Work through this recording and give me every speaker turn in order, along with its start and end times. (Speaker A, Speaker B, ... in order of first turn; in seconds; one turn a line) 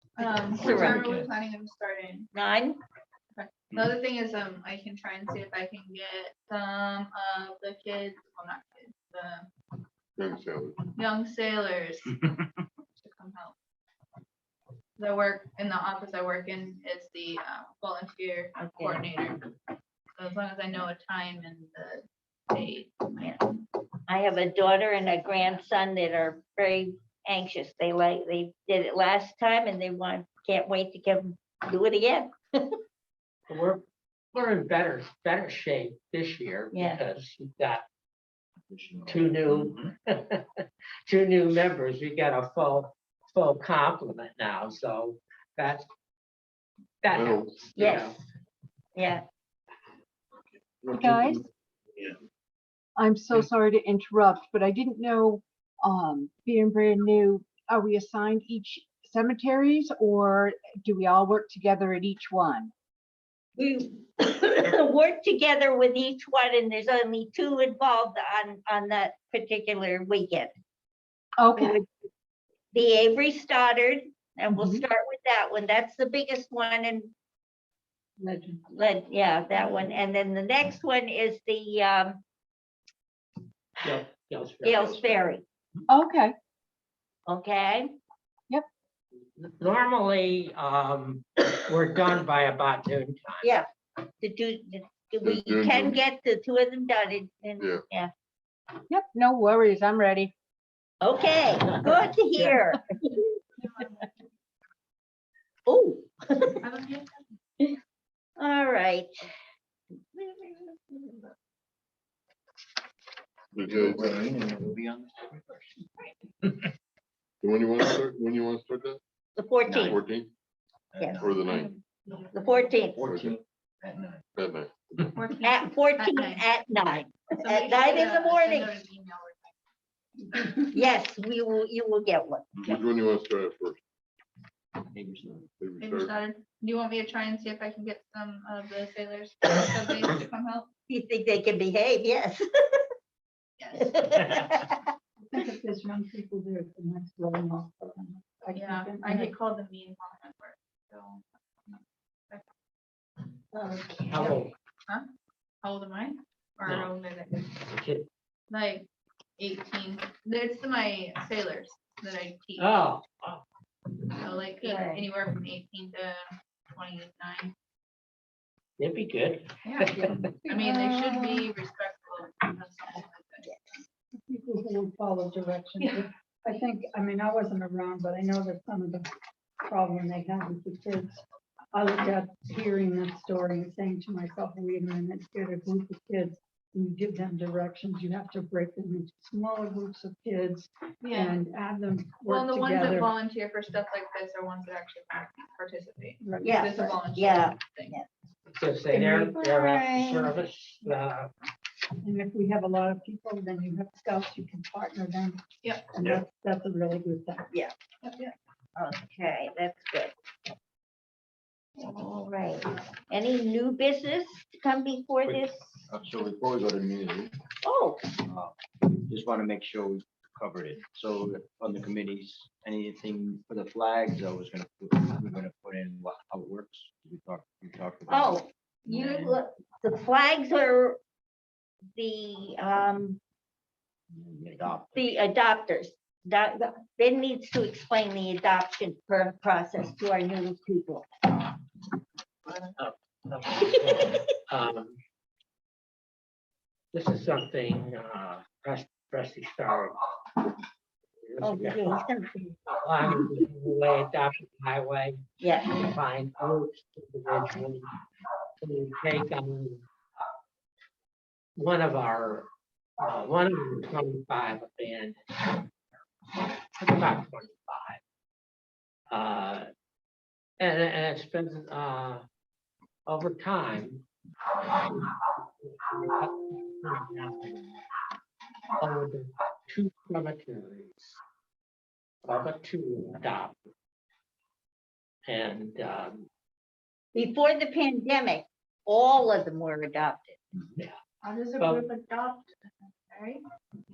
Speaker A: 0.2-2.3
Speaker B: 0.5-1.0
Speaker C: 0.6-1.3
Speaker B: 2.3-2.8
Speaker A: 3.4-9.5
Speaker D: 10.2-10.8
Speaker A: 10.9-12.2
Speaker A: 13.0-13.5
Speaker A: 15.0-19.4
Speaker B: 18.6-19.0
Speaker A: 20.2-23.6
Speaker B: 24.1-32.3
Speaker E: 33.5-33.8
Speaker E: 34.3-37.8
Speaker B: 36.7-37.0
Speaker C: 38.7-39.9
Speaker E: 39.1-45.9
Speaker E: 47.0-48.2
Speaker D: 47.1-47.5
Speaker B: 47.8-48.2
Speaker B: 49.0-49.2
Speaker D: 50.8-51.4
Speaker F: 50.9-51.4
Speaker F: 53.0-62.7
Speaker B: 63.6-70.5
Speaker F: 71.4-71.8
Speaker B: 71.5-71.8
Speaker B: 72.7-77.1
Speaker F: 74.5-74.8
Speaker G: 78.2-78.6
Speaker B: 78.7-82.2
Speaker G: 79.5-79.9
Speaker E: 83.8-85.3
Speaker B: 84.6-85.4
Speaker F: 85.9-86.3
Speaker B: 87.3-87.9
Speaker E: 89.4-93.5
Speaker B: 93.4-93.7
Speaker B: 94.2-98.1
Speaker D: 95.2-96.0
Speaker D: 97.6-97.8
Speaker F: 98.9-100.3
Speaker B: 101.0-103.0
Speaker B: 105.7-106.6
Speaker A: 106.6-107.1
Speaker B: 108.4-109.2
Speaker B: 110.1-111.2
Speaker D: 113.5-114.2
Speaker C: 113.6-115.9
Speaker D: 117.4-119.0
Speaker B: 119.4-120.0
Speaker C: 119.7-120.0
Speaker D: 119.8-120.3
Speaker C: 120.9-122.2
Speaker B: 121.0-121.3
Speaker D: 121.2-121.6
Speaker B: 122.3-123.0
Speaker C: 122.8-124.2
Speaker D: 123.0-123.3
Speaker D: 124.3-125.1
Speaker A: 125.1-126.4
Speaker B: 125.4-128.7
Speaker A: 127.3-129.5
Speaker B: 130.6-132.5
Speaker D: 132.7-133.8
Speaker C: 134.9-135.5
Speaker D: 135.6-136.1
Speaker A: 135.8-140.7
Speaker B: 140.9-142.8
Speaker A: 143.6-144.0
Speaker B: 143.8-144.8
Speaker G: 145.2-149.3
Speaker A: 148.5-152.4
Speaker G: 153.5-154.3
Speaker E: 154.1-154.5
Speaker A: 155.6-157.5
Speaker E: 156.7-156.9
Speaker E: 157.5-158.1
Speaker A: 158.5-158.9
Speaker A: 159.4-162.7
Speaker E: 162.6-163.4
Speaker A: 164.2-166.2
Speaker B: 164.6-165.1
Speaker A: 166.7-167.5
Speaker E: 168.8-170.4
Speaker A: 169.6-173.8
Speaker B: 170.6-171.4
Speaker G: 174.3-179.1
Speaker G: 179.6-181.2
Speaker G: 181.7-193.1
Speaker A: 191.0-191.4
Speaker A: 192.3-197.9
Speaker G: 196.2-197.0
Speaker B: 196.4-198.1
Speaker E: 198.5-201.3
Speaker G: 198.9-199.3
Speaker B: 199.2-200.3
Speaker G: 202.0-205.4
Speaker A: 205.6-205.9
Speaker G: 205.9-207.5
Speaker A: 208.0-208.3
Speaker B: 208.8-210.1
Speaker B: 211.8-215.7
Speaker C: 215.9-217.3
Speaker B: 217.6-218.0
Speaker C: 218.2-229.4
Speaker B: 228.1-231.0
Speaker B: 231.9-233.2
Speaker C: 234.1-235.0
Speaker B: 234.9-241.1
Speaker E: 242.6-245.0
Speaker B: 243.6-244.2
Speaker E: 246.9-250.0
Speaker E: 251.2-252.0
Speaker B: 251.4-253.3
Speaker E: 252.7-257.9
Speaker B: 255.4-255.7
Speaker E: 258.6-259.8
Speaker E: 261.6-262.5
Speaker E: 263.0-265.6
Speaker E: 266.8-268.0
Speaker E: 269.1-269.7
Speaker E: 270.6-272.2
Speaker E: 273.1-274.0
Speaker E: 274.7-277.7
Speaker E: 278.8-281.2
Speaker E: 282.2-283.6
Speaker E: 285.2-286.2
Speaker B: 287.1-290.4
Speaker A: 291.2-293.4
Speaker E: 291.6-291.9